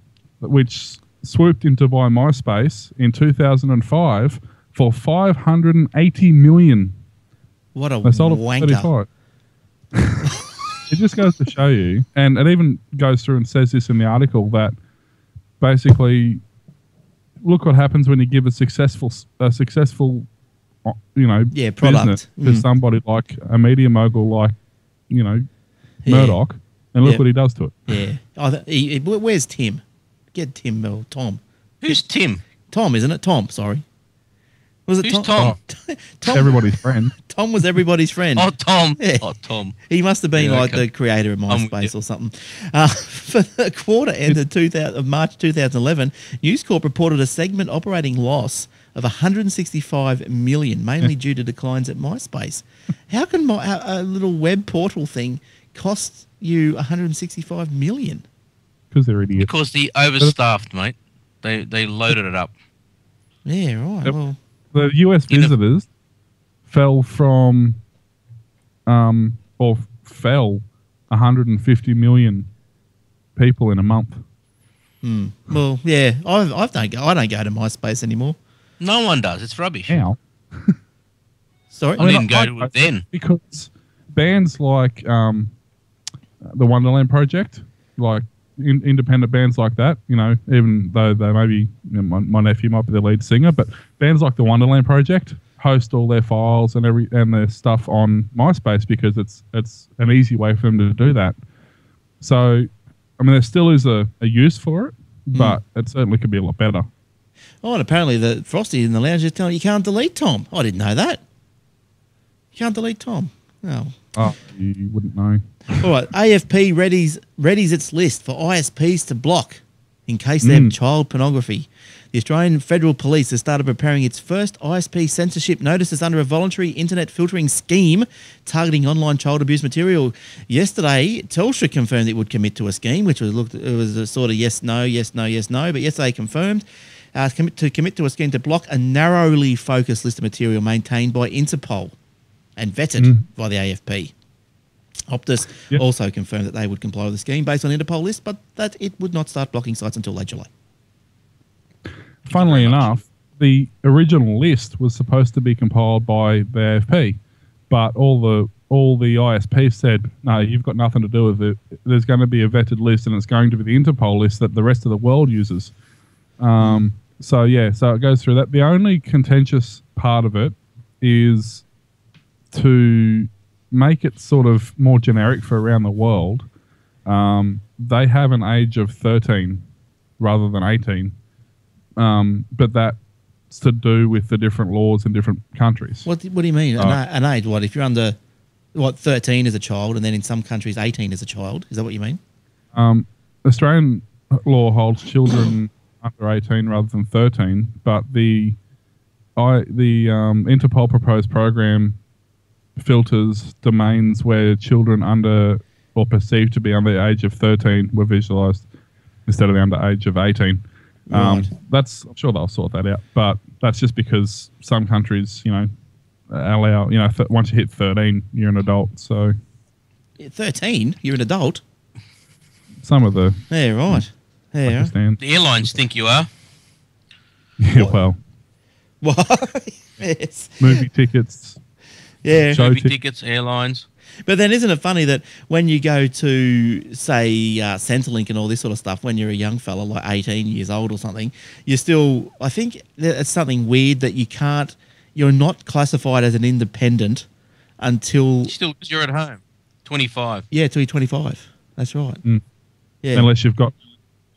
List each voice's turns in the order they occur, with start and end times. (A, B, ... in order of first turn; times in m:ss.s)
0:00.4-0:06.9 A
0:07.7-0:08.9 B
0:08.0-0:09.1 A
0:09.9-0:10.2 A
0:10.9-0:14.7 A
0:15.6-0:16.4 A
0:17.4-0:20.3 A
0:20.8-0:24.5 A
0:21.5-0:22.7 B
0:25.1-0:25.4 A
0:26.0-0:26.4 B
0:26.0-0:28.0 A
0:27.9-0:32.0 B
0:31.8-0:32.4 C
0:32.7-0:33.8 B
0:34.9-0:38.5 B
0:35.0-0:35.6 C
0:36.3-0:37.1 A
0:38.4-0:39.8 C
0:39.0-0:39.2 B
0:39.9-0:58.2 B
0:40.4-0:40.8 C
0:41.5-0:41.9 C
0:58.9-0:59.5 A
0:59.4-1:02.5 C
1:03.4-1:04.4 B
1:04.7-1:05.9 A
1:05.3-1:05.5 C
1:06.7-1:07.8 A
1:08.8-1:12.5 A
1:13.4-1:14.2 A
1:15.0-1:18.4 B
1:18.8-1:20.0 C
1:19.9-1:20.8 A
1:21.7-1:22.1 B
1:22.0-1:23.0 C
1:22.0-1:25.5 A
1:26.4-1:41.3 A
1:42.2-1:46.9 A
1:47.6-1:51.2 B
1:52.5-1:54.0 B
1:54.2-1:55.9 A
1:55.7-2:21.9 B
2:00.4-2:00.7 A
2:22.6-2:24.1 B
2:23.0-2:23.2 A
2:25.1-2:30.5 B
2:32.2-2:37.2 A
2:32.3-2:33.0 C
2:37.7-2:45.7 A
2:46.4-2:51.6 A
2:46.6-2:46.9 B
2:52.5-2:56.4 A
2:57.0-2:59.6 A
3:00.2-3:01.1 A
3:02.0-3:03.0 A
3:03.5-3:06.1 A
3:06.0-3:08.2 B
3:08.7-3:12.2 B
3:12.7-3:18.6 A
3:19.4-3:22.0 A
3:22.8-3:28.7 A
3:29.3-3:35.7 A
3:31.1-3:31.5 B
3:36.3-3:39.3 A
3:40.2-3:41.6 B
3:42.8-3:44.0 A
3:43.5-3:44.9 B
3:44.7-3:45.2 A
3:45.2-3:46.3 C
3:47.6-3:48.2 A
3:49.0-3:50.9 B
3:50.6-3:51.6 A
3:52.2-3:52.6 B
3:52.5-3:52.9 A
3:52.5-3:53.8 C
3:54.2-4:07.3 B
4:07.8-4:08.5 B
4:08.5-4:10.4 C
4:10.5-4:12.2 B
4:13.0-4:13.3 B
4:13.1-4:13.7 A